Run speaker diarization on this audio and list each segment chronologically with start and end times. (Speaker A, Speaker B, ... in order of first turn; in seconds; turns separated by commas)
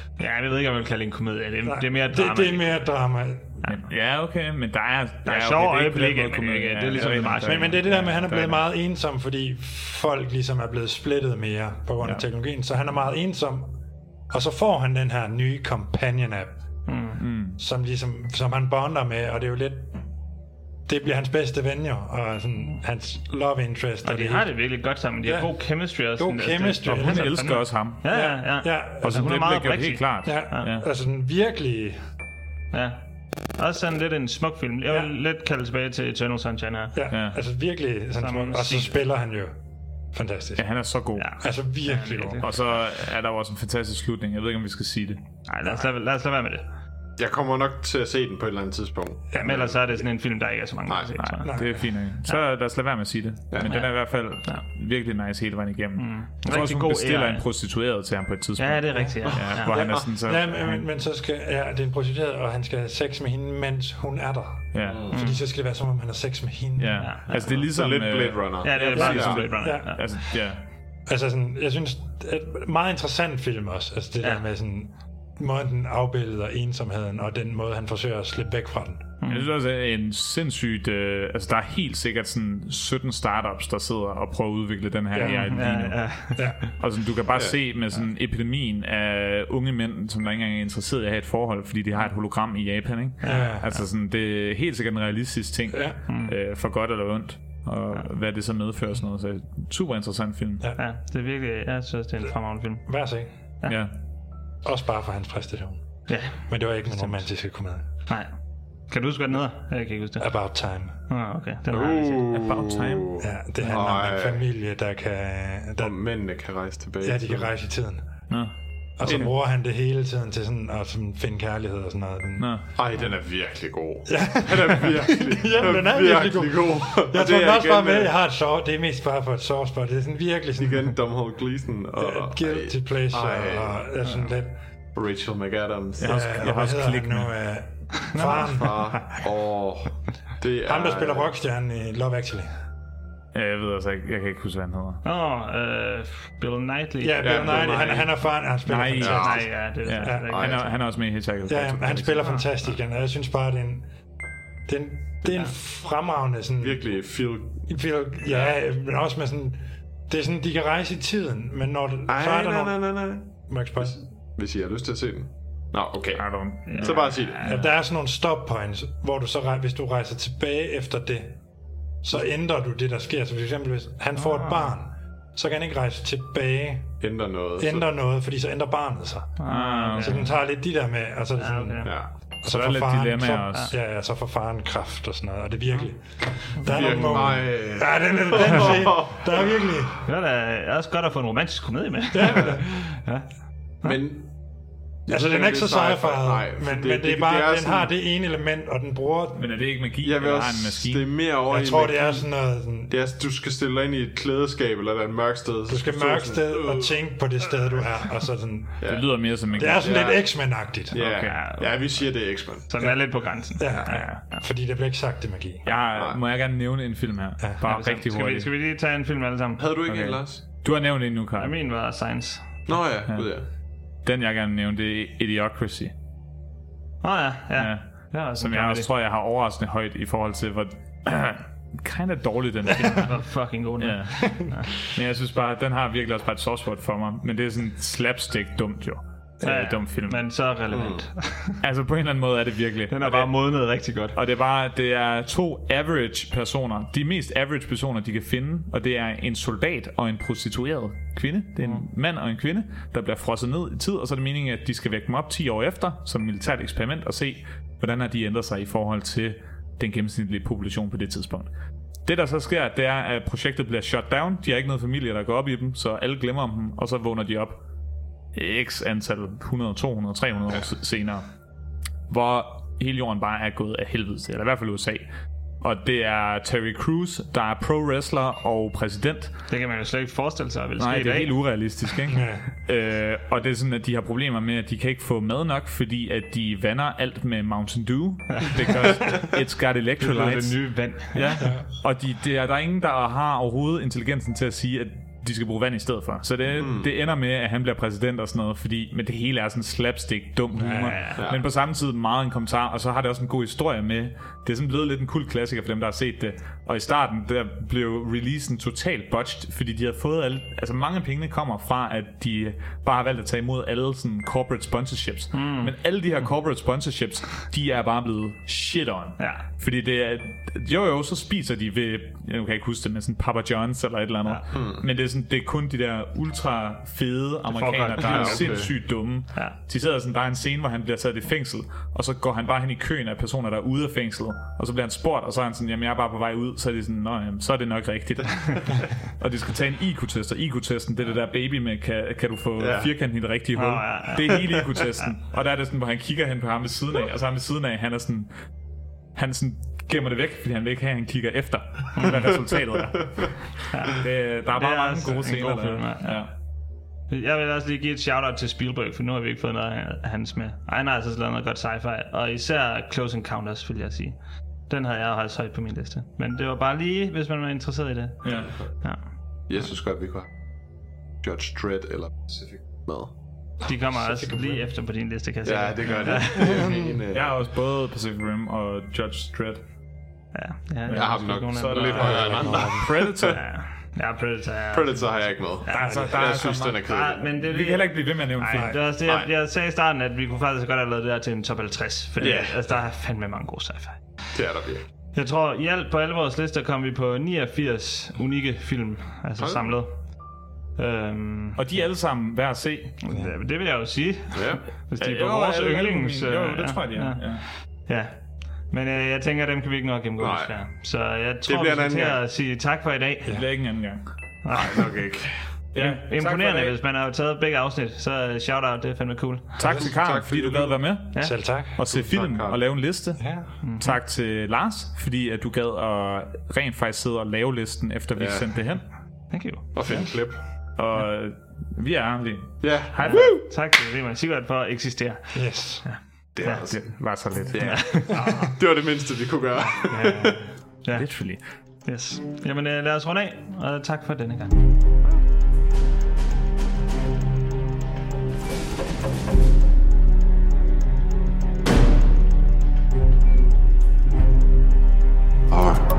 Speaker A: 0.2-2.8, Speaker B: 1.6-3.6, Speaker C: 3.6-8.5, Speaker A: 5.2-8.5, Speaker B: 7.1-13.7, Speaker B: 14.3-16.6, Speaker A: 16.9-17.2, Speaker C: 17.2-17.6, Speaker B: 17.6-19.9, Speaker B: 20.9-24.5, Speaker A: 24.0-30.7, Speaker B: 25.2-25.5, Speaker B: 26.2-27.5, Speaker C: 26.8-28.0, Speaker B: 28.1-29.6, Speaker C: 29.0-30.8, Speaker B: 30.2-32.0, Speaker A: 32.7-33.0, Speaker A: 33.5-37.0, Speaker B: 36.9-39.6, Speaker C: 37.1-37.4, Speaker A: 38.2-38.9, Speaker B: 40.1-40.6, Speaker C: 40.6-41.4, Speaker A: 41.2-42.5, Speaker B: 41.4-42.5, Speaker C: 42.4-45.2, Speaker A: 45.5-46.6, Speaker D: 47.2-49.7, Speaker B: 49.3-49.9, Speaker A: 49.4-52.4, Speaker D: 50.9-51.1, Speaker C: 51.2-60.6, Speaker B: 51.4-51.8, Speaker A: 53.6-54.6, Speaker A: 56.0-57.4, Speaker A: 58.6-59.8, Speaker B: 58.9-67.2, Speaker D: 59.3-60.0, Speaker C: 64.7-65.1, Speaker D: 64.8-65.1, Speaker A: 65.1-65.4, Speaker C: 66.8-70.6, Speaker A: 67.0-67.7, Speaker D: 67.7-69.4, Speaker A: 68.6-70.1, Speaker B: 69.0-70.2, Speaker B: 71.0-79.1, Speaker A: 79.2-79.5, Speaker C: 79.3-86.2, Speaker B: 85.1-85.5, Speaker A: 85.2-86.5, Speaker C: 86.8-100.7, Speaker A: 93.2-93.5, Speaker B: 93.2-93.8, Speaker B: 95.7-96.0, Speaker A: 96.1-96.3, Speaker A: 100.8-102.9, Speaker B: 102.8-103.3, Speaker C: 103.7-103.9, Speaker B: 104.6-105.8, Speaker A: 106.1-107.1, Speaker B: 106.3-107.8, Speaker A: 108.9-110.3, Speaker B: 110.2-111.0, Speaker A: 111.1-112.5, Speaker D: 111.7-114.4, Speaker C: 112.3-113.2, Speaker B: 113.2-116.0, Speaker D: 115.8-117.5, Speaker B: 117.0-118.0, Speaker B: 119.0-122.5, Speaker D: 119.0-119.3, Speaker C: 122.4-122.6, Speaker D: 122.7-128.1, Speaker B: 124.1-131.0, Speaker D: 130.6-133.8, Speaker B: 132.0-134.5, Speaker D: 134.9-136.2, Speaker C: 136.0-137.3, Speaker B: 136.0-138.9, Speaker A: 138.0-138.7, Speaker D: 138.2-141.3, Speaker B: 140.6-142.5, Speaker C: 143.3-145.0, Speaker A: 145.0-148.0, Speaker B: 147.0-149.5, Speaker D: 147.2-148.2, Speaker C: 148.7-152.3, Speaker D: 149.0-149.5, Speaker A: 149.0-150.7, Speaker B: 150.0-150.3, Speaker D: 150.3-150.7, Speaker B: 151.5-153.8, Speaker A: 152.2-152.5, Speaker B: 154.7-156.8, Speaker D: 156.6-157.7, Speaker B: 157.7-164.0, Speaker D: 162.1-167.5, Speaker C: 166.1-167.7, Speaker A: 166.7-167.6, Speaker B: 167.4-171.4, Speaker B: 172.0-177.0, Speaker A: 174.2-174.7, Speaker D: 177.0-177.9, Speaker B: 177.6-179.4, Speaker A: 179.4-180.3, Speaker C: 179.4-180.3, Speaker B: 180.0-189.9, Speaker A: 181.4-181.9, Speaker D: 181.8-182.1, Speaker C: 182.4-183.7, Speaker A: 186.6-187.3, Speaker D: 186.7-189.6, Speaker A: 190.1-193.3, Speaker B: 192.1-192.6, Speaker D: 193.8-194.3, Speaker D: 195.1-197.9, Speaker B: 195.1-199.4, Speaker C: 199.3-201.1, Speaker D: 200.0-202.3, Speaker B: 201.5-202.9, Speaker D: 202.9-207.0, Speaker B: 205.7-208.8, Speaker D: 208.8-209.1, Speaker C: 208.8-210.0, Speaker B: 209.5-210.9, Speaker D: 209.8-212.7, Speaker C: 210.9-211.4, Speaker A: 211.2-214.4, Speaker B: 213.6-215.7, Speaker C: 213.8-214.2, Speaker C: 215.6-218.5, Speaker A: 217.6-219.6, Speaker D: 219.6-220.4, Speaker C: 219.8-221.5, Speaker A: 221.4-222.6, Speaker D: 222.7-223.4, Speaker C: 224.0-225.9, Speaker A: 227.0-228.9, Speaker C: 227.6-233.2, Speaker A: 232.9-234.7, Speaker C: 233.8-240.3, Speaker A: 239.4-241.6, Speaker D: 240.7-241.0, Speaker C: 241.6-243.4, Speaker A: 242.9-244.2, Speaker C: 244.1-261.5, Speaker C: 262.0-267.6, Speaker C: 268.3-271.2, Speaker C: 272.1-275.1, Speaker C: 275.6-279.3, Speaker A: 279.5-281.3, Speaker C: 280.8-348.3, Speaker B: 282.1-282.4, Speaker A: 288.3-289.0, Speaker A: 290.0-291.4, Speaker B: 291.4-291.6, Speaker D: 296.5-296.9, Speaker A: 300.6-301.2, Speaker B: 300.6-300.9, Speaker D: 301.2-301.4, Speaker A: 315.3-315.7, Speaker A: 319.2-319.4, Speaker D: 324.5-324.9, Speaker A: 327.5-329.6, Speaker D: 328.0-328.7, Speaker D: 342.6-342.9, Speaker A: 343.5-344.5, Speaker C: 349.1-353.4, Speaker A: 351.9-352.3, Speaker D: 352.0-353.1, Speaker A: 353.7-356.2, Speaker C: 353.9-356.3, Speaker A: 357.1-364.2, Speaker A: 364.7-369.1, Speaker C: 368.2-368.6, Speaker D: 368.3-368.7, Speaker D: 369.5-370.3, Speaker D: 371.2-373.1, Speaker B: 373.6-374.7, Speaker A: 373.6-376.6, Speaker D: 375.4-377.3, Speaker B: 376.2-377.0, Speaker C: 377.1-379.6, Speaker A: 380.3-382.3, Speaker C: 380.9-383.4, Speaker D: 380.9-383.4, Speaker B: 381.9-382.9, Speaker A: 383.3-394.0, Speaker D: 384.7-387.3, Speaker C: 385.7-388.9, Speaker B: 385.7-386.2, Speaker B: 388.5-388.8, Speaker D: 392.2-392.7, Speaker D: 394.3-394.9, Speaker A: 395.1-400.0, Speaker D: 399.4-399.7, Speaker A: 400.8-401.8, Speaker C: 401.6-403.0, Speaker A: 403.0-413.4, Speaker D: 404.3-404.6, Speaker C: 405.0-407.4, Speaker D: 410.2-410.5, Speaker D: 411.4-412.2, Speaker C: 413.3-414.0, Speaker A: 414.4-414.9, Speaker D: 414.5-415.5, Speaker C: 415.7-416.8, Speaker A: 415.7-419.5, Speaker C: 419.6-428.9, Speaker B: 419.6-419.9, Speaker D: 419.6-420.9, Speaker B: 421.2-421.8, Speaker D: 421.8-422.6, Speaker B: 423.2-423.5, Speaker A: 423.6-423.9, Speaker D: 428.1-428.7, Speaker A: 429.3-430.1, Speaker D: 429.7-430.4, Speaker C: 430.8-433.4, Speaker D: 432.6-433.4, Speaker A: 433.0-437.0, Speaker B: 435.3-435.9, Speaker D: 436.4-437.0, Speaker C: 436.4-437.9, Speaker A: 437.5-438.3, Speaker D: 437.5-440.4, Speaker B: 438.1-438.5, Speaker A: 439.6-441.1, Speaker C: 440.9-441.4, Speaker A: 441.8-444.6